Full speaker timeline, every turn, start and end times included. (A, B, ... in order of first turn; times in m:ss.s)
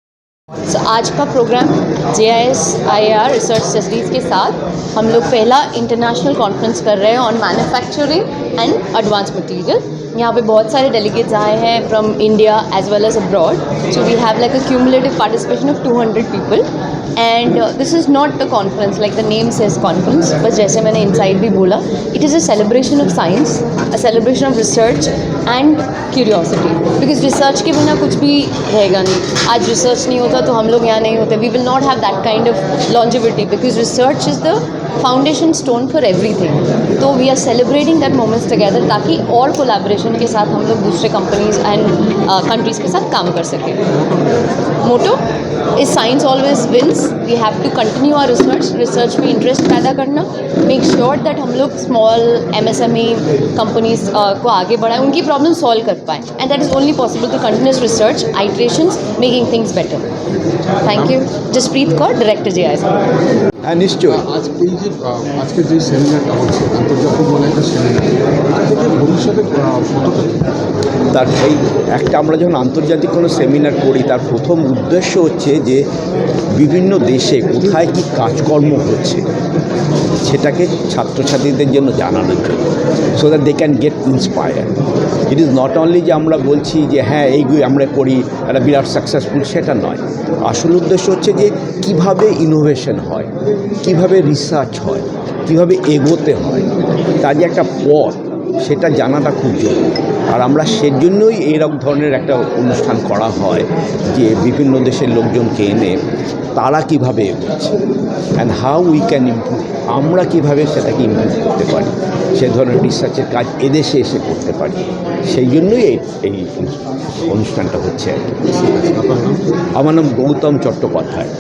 0:00.7-0:43.8 A
0:44.0-0:44.4 B
0:44.8-0:45.2 A
0:45.8-1:00.1 A
1:00.8-1:03.0 A
1:00.9-1:01.2 B
1:03.6-1:04.2 C
1:04.1-1:10.6 B
1:11.1-1:15.8 C
1:16.5-1:19.2 C
1:20.2-1:24.7 C
1:25.3-1:33.3 C
1:33.8-1:36.7 C
1:37.2-1:46.0 C
1:46.6-1:47.8 C
1:48.4-1:58.7 C
1:58.9-1:59.4 B
1:59.8-2:01.3 C